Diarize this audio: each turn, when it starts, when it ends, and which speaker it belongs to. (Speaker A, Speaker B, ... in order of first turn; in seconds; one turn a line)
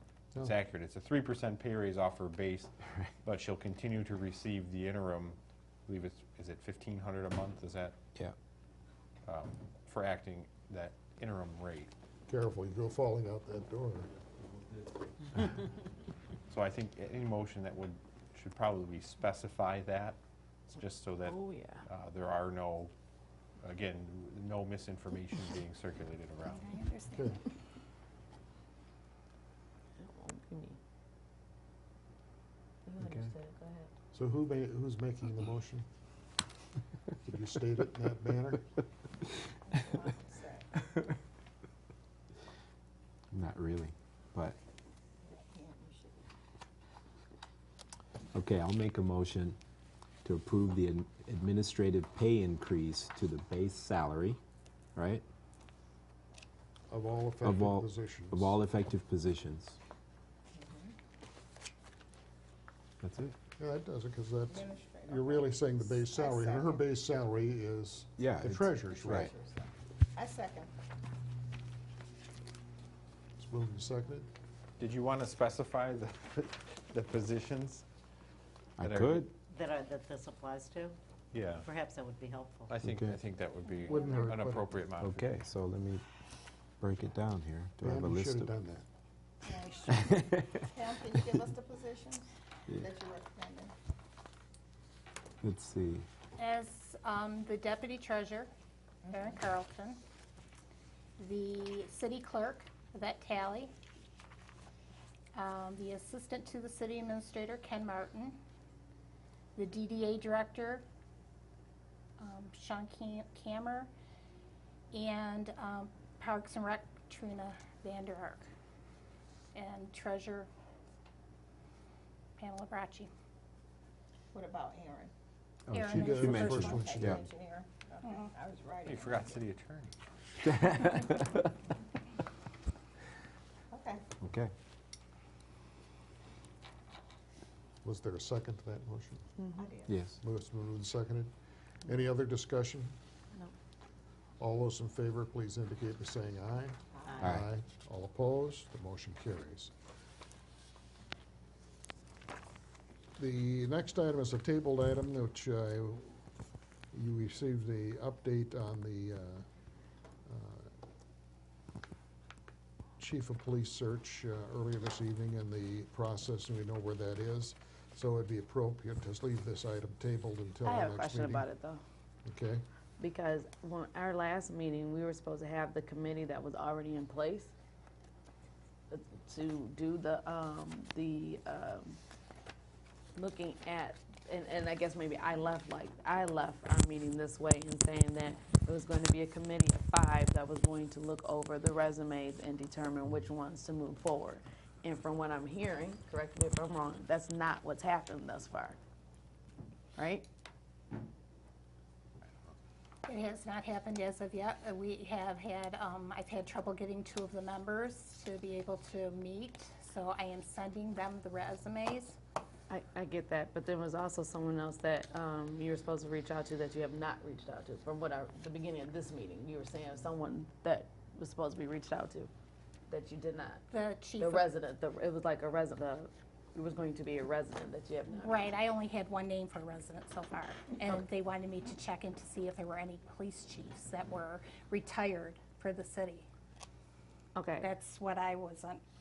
Speaker A: 0.4-8.0
Speaker A: 9.2-11.9
Speaker B: 12.3-14.1
Speaker A: 16.5-20.2
Speaker A: 20.7-22.9
Speaker C: 21.2-21.9
Speaker A: 23.6-26.7
Speaker D: 26.7-27.3
Speaker C: 30.0-30.8
Speaker C: 32.8-33.9
Speaker B: 34.1-35.8
Speaker B: 37.2-38.7
Speaker D: 39.7-40.7
Speaker E: 43.3-44.6
Speaker D: 45.2-46.3
Speaker E: 48.3-49.6
Speaker E: 50.2-54.4
Speaker E: 55.0-55.2
Speaker B: 56.9-58.5
Speaker E: 57.4-59.8
Speaker D: 60.5-60.9
Speaker E: 63.0-63.3
Speaker B: 63.6-69.3
Speaker D: 64.5-66.8
Speaker E: 68.2-69.3
Speaker D: 68.8-70.7
Speaker B: 73.4-74.3
Speaker A: 74.8-77.8
Speaker E: 78.8-79.3
Speaker A: 78.8-79.3
Speaker F: 79.4-81.0
Speaker A: 81.3-81.7
Speaker F: 81.6-82.7
Speaker A: 82.7-85.4
Speaker E: 82.8-83.2
Speaker G: 83.8-84.3
Speaker B: 83.8-84.7
Speaker E: 85.0-86.0
Speaker E: 86.8-88.5
Speaker B: 87.8-88.8
Speaker D: 89.5-89.9
Speaker G: 89.5-90.1
Speaker E: 89.9-90.6
Speaker D: 90.6-93.7
Speaker E: 95.4-96.0
Speaker G: 96.4-98.5
Speaker D: 99.0-99.4
Speaker G: 99.1-100.0
Speaker G: 101.2-103.7
Speaker G: 105.3-108.4
Speaker G: 109.5-110.8
Speaker G: 112.2-113.9
Speaker G: 114.9-118.5
Speaker G: 119.5-120.5
Speaker G: 122.4-123.1
Speaker D: 124.3-125.1
Speaker E: 125.7-127.2
Speaker G: 125.7-127.1
Speaker B: 125.9-127.2
Speaker D: 126.7-129.4
Speaker A: 128.8-129.9
Speaker E: 130.4-131.5
Speaker D: 133.7-134.0
Speaker E: 134.2-134.5
Speaker B: 137.8-139.2
Speaker C: 139.4-139.7
Speaker D: 139.6-140.0
Speaker E: 139.9-140.2
Speaker B: 140.2-141.3
Speaker B: 141.8-142.9
Speaker B: 144.4-149.7
Speaker D: 147.0-147.2
Speaker E: 147.2-147.5
Speaker B: 153.2-156.2
Speaker B: 156.9-159.4
Speaker B: 160.3-160.7
Speaker B: 163.0-171.4
Speaker C: 170.6-171.8
Speaker B: 172.2-172.6
Speaker C: 173.0-177.5
Speaker C: 178.9-182.0
Speaker C: 183.2-198.8
Speaker C: 200.0-200.3
Speaker G: 203.1-212.2
Speaker C: 212.7-222.3
Speaker C: 222.9-223.6
Speaker G: 223.7-224.5
Speaker C: 224.2-228.5
Speaker G: 228.2-236.3
Speaker C: 237.3-237.7
Speaker G: 237.6-238.8